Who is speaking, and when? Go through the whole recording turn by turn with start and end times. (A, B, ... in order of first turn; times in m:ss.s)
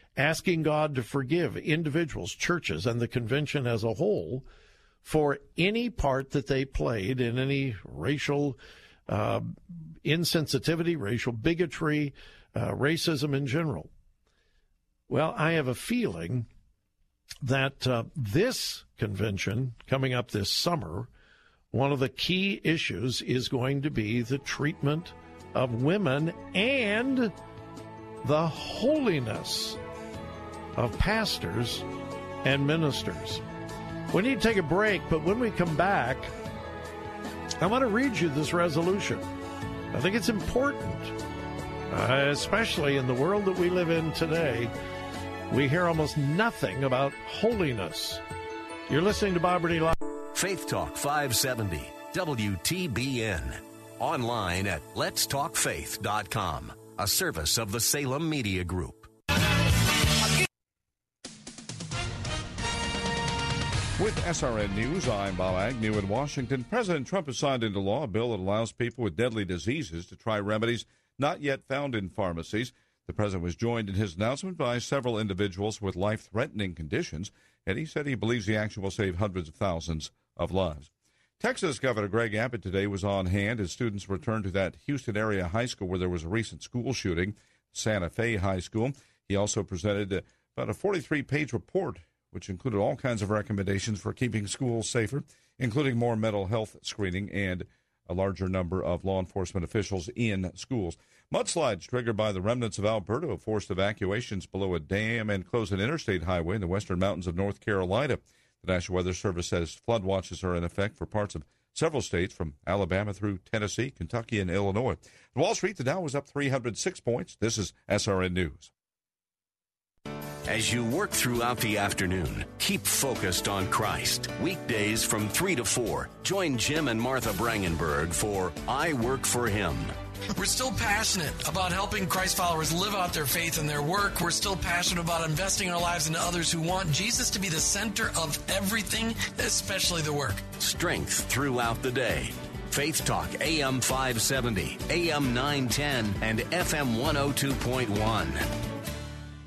0:00.2-0:04.4 A
0:05.0-0:13.9 A
0:15.1-0:16.5 A
0:17.4-0:21.1 A
0:21.7-0:27.3 A
0:28.2-0:29.8 A
0:30.8-0:31.8 A
0:32.4-0:33.4 A
0:34.1-0:36.3 A
0:37.6-0:39.2 A
0:39.9-0:41.1 A
0:41.9-0:44.7 A
0:45.5-0:48.2 A
0:48.9-0:50.0 A
0:50.3-0:59.1 B
1:04.0-1:58.7 C
2:00.5-2:09.9 B
2:10.4-2:20.5 D
2:20.6-2:28.4 B